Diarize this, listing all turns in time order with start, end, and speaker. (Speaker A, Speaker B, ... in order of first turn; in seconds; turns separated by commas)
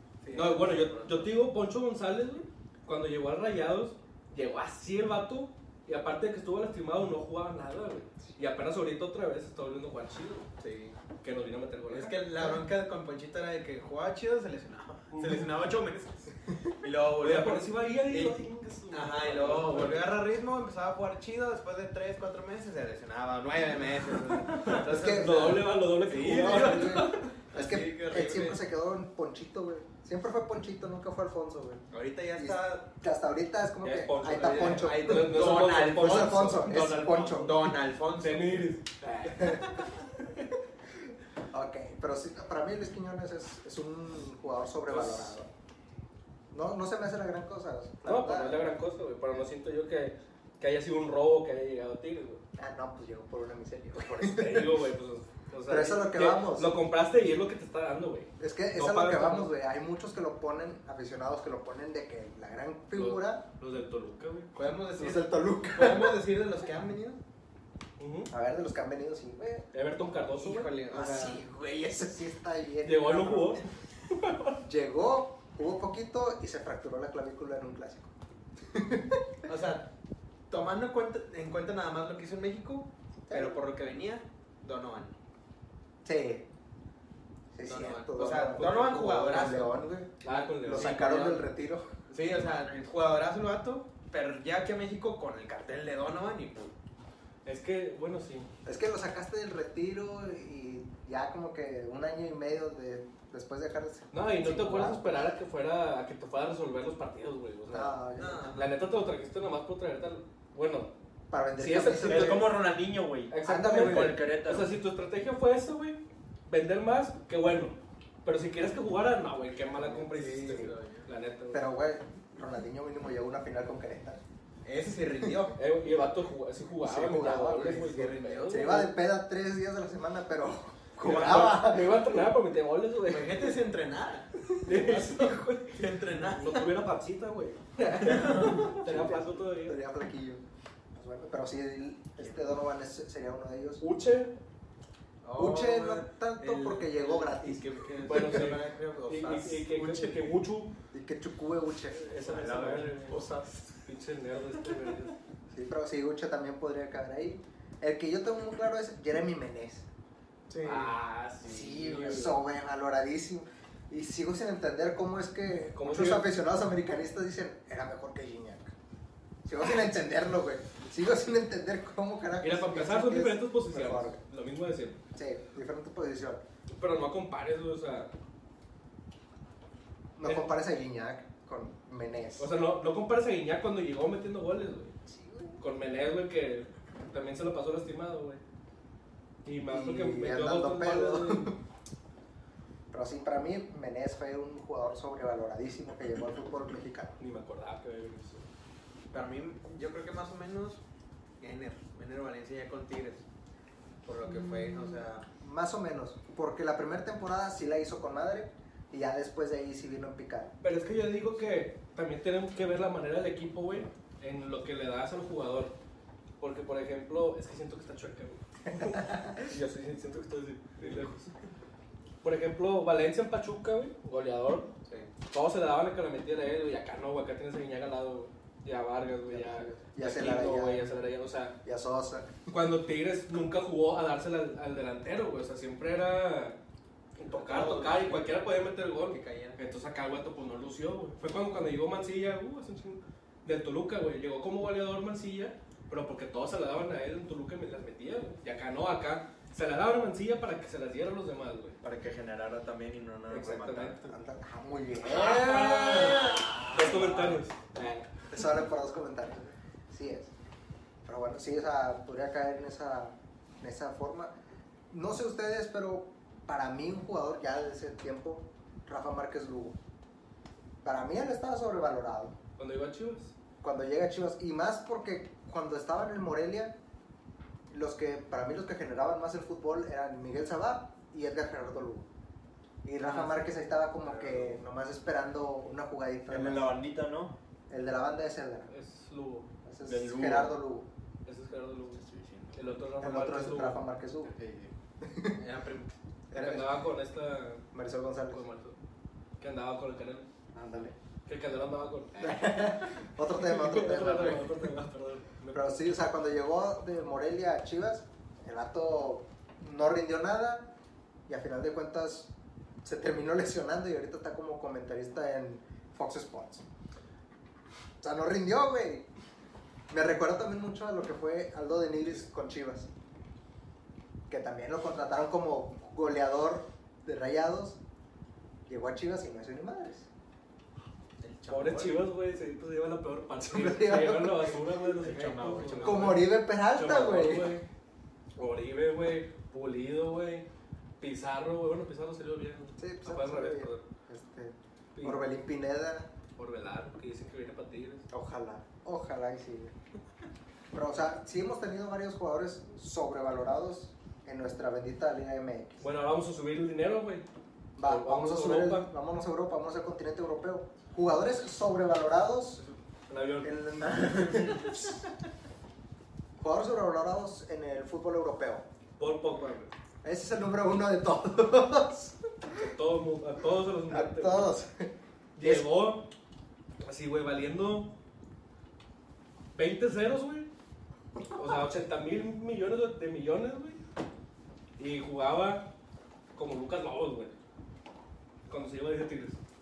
Speaker A: 0.2-1.3, Speaker B: 0.3-10.5, Speaker A: 10.6-11.0, Speaker B: 11.2-12.2, Speaker A: 11.9-27.0, Speaker B: 15.1-15.5, Speaker B: 17.2-20.1, Speaker B: 24.6-27.3, Speaker C: 24.7-31.9, Speaker A: 27.5-28.6, Speaker A: 31.9-32.9, Speaker C: 32.4-37.7, Speaker B: 33.8-39.9, Speaker A: 34.4-38.8, Speaker C: 39.4-39.6, Speaker C: 41.5-45.5, Speaker B: 44.9-45.4, Speaker C: 46.5-48.6, Speaker B: 48.0-52.4, Speaker C: 52.6-54.8, Speaker B: 54.0-59.5, Speaker C: 55.6-56.7, Speaker C: 58.4-63.4, Speaker B: 63.0-64.5, Speaker A: 64.5-67.2, Speaker C: 65.0-66.2, Speaker B: 68.0-68.3, Speaker C: 68.3-69.7, Speaker B: 69.7-70.7, Speaker A: 70.4-71.5, Speaker C: 70.9-73.6, Speaker B: 72.8-74.6, Speaker C: 74.6-78.1, Speaker C: 78.7-79.3, Speaker A: 79.5-79.9, Speaker A: 80.5-85.1, Speaker C: 83.3-83.6, Speaker C: 86.0-86.5, Speaker C: 87.5-91.9, Speaker A: 87.6-89.8, Speaker B: 90.2-91.0, Speaker A: 90.7-91.5, Speaker A: 92.1-96.7, Speaker B: 97.5-98.5, Speaker C: 98.6-105.3, Speaker B: 104.1-108.0, Speaker C: 107.7-108.5, Speaker A: 108.2-108.8, Speaker B: 108.5-110.9, Speaker C: 111.3-112.6, Speaker B: 111.6-112.5, Speaker D: 112.0-114.8, Speaker B: 113.3-121.6, Speaker C: 113.4-114.3, Speaker C: 119.8-120.7, Speaker A: 120.1-121.1, Speaker C: 121.5-124.2, Speaker A: 124.6-125.6, Speaker B: 125.6-128.9, Speaker C: 126.8-132.1, Speaker A: 127.7-128.7, Speaker B: 131.0-133.6, Speaker A: 133.1-136.7, Speaker B: 134.6-139.8, Speaker A: 138.0-138.7, Speaker C: 138.7-140.4, Speaker C: 140.9-143.8, Speaker A: 142.2-142.4, Speaker B: 143.8-144.3, Speaker A: 145.2-150.4, Speaker C: 145.3-147.8, Speaker B: 148.1-150.7, Speaker C: 150.9-152.0, Speaker B: 151.9-153.2, Speaker A: 152.3-153.8, Speaker D: 152.4-152.7, Speaker B: 153.8-155.2, Speaker C: 155.5-159.9, Speaker A: 160.5-160.9, Speaker B: 160.6-162.4, Speaker C: 161.4-168.7, Speaker B: 165.8-166.3, Speaker C: 169.4-174.2, Speaker B: 172.4-175.0, Speaker C: 175.1-176.4, Speaker B: 176.7-178.1, Speaker C: 180.2-182.5, Speaker B: 180.2-180.5, Speaker B: 182.4-184.9, Speaker C: 185.1-185.6, Speaker B: 185.6-188.4, Speaker B: 189.4-191.5, Speaker C: 189.6-191.6, Speaker C: 192.9-197.2, Speaker B: 197.2-198.5, Speaker A: 199.1-200.8, Speaker A: 201.4-203.2, Speaker A: 204.1-205.2, Speaker C: 204.3-210.6, Speaker B: 210.6-215.7, Speaker B: 216.4-221.3, Speaker C: 218.7-219.3, Speaker B: 222.2-224.7, Speaker B: 225.3-231.5, Speaker C: 229.3-230.9, Speaker C: 231.6-232.4, Speaker B: 232.5-236.6, Speaker B: 237.2-251.8, Speaker A: 237.2-238.3, Speaker A: 239.1-239.6, Speaker D: 251.8-254.1, Speaker B: 253.3-254.0, Speaker C: 254.1-256.5, Speaker B: 255.0-258.1, Speaker A: 255.6-256.9, Speaker C: 258.3-260.3, Speaker C: 261.0-264.4, Speaker C: 264.9-269.8, Speaker C: 270.8-272.4, Speaker B: 272.6-273.3, Speaker C: 273.6-276.8, Speaker C: 277.7-282.1, Speaker C: 282.8-286.8, Speaker B: 283.0-283.3, Speaker D: 286.3-287.4, Speaker C: 287.7-288.7, Speaker B: 288.7-289.5, Speaker C: 289.6-290.9, Speaker D: 289.9-290.6, Speaker B: 291.2-292.0, Speaker D: 291.9-292.7, Speaker B: 292.5-293.8, Speaker C: 293.0-294.4, Speaker D: 294.3-294.7, Speaker C: 295.0-295.4, Speaker A: 295.4-295.9, Speaker C: 296.3-296.8, Speaker B: 296.3-297.6, Speaker C: 297.7-298.4, Speaker B: 298.3-298.8, Speaker B: 299.4-300.2, Speaker C: 300.5-300.9, Speaker B: 301.2-302.8, Speaker C: 302.2-304.7, Speaker B: 303.3-305.7, Speaker C: 305.5-310.7, Speaker C: 311.3-312.3, Speaker C: 312.8-316.6, Speaker C: 318.0-319.1, Speaker C: 319.9-322.9, Speaker C: 324.3-327.8, Speaker C: 328.7-330.1, Speaker A: 331.2-332.0, Speaker B: 331.5-337.6, Speaker C: 333.4-334.6, Speaker A: 335.0-336.2, Speaker D: 335.2-335.8, Speaker C: 335.8-337.6, Speaker B: 338.4-340.4, Speaker B: 341.0-343.8, Speaker C: 342.8-346.1, Speaker B: 345.0-345.2, Speaker B: 346.4-348.0, Speaker C: 348.1-349.8, Speaker C: 350.7-355.8, Speaker B: 355.8-357.2, Speaker C: 357.8-362.6, Speaker B: 357.8-358.9, Speaker B: 363.1-363.6, Speaker C: 363.4-365.0, Speaker C: 366.4-368.6, Speaker B: 369.0-369.7, Speaker C: 370.0-372.1, Speaker B: 372.6-374.5, Speaker C: 373.9-375.7, Speaker B: 375.4-376.1, Speaker B: 376.8-377.9, Speaker B: 379.6-380.5, Speaker B: 381.4-383.8, Speaker B: 384.8-385.7, Speaker B: 386.4-387.4, Speaker B: 388.5-389.4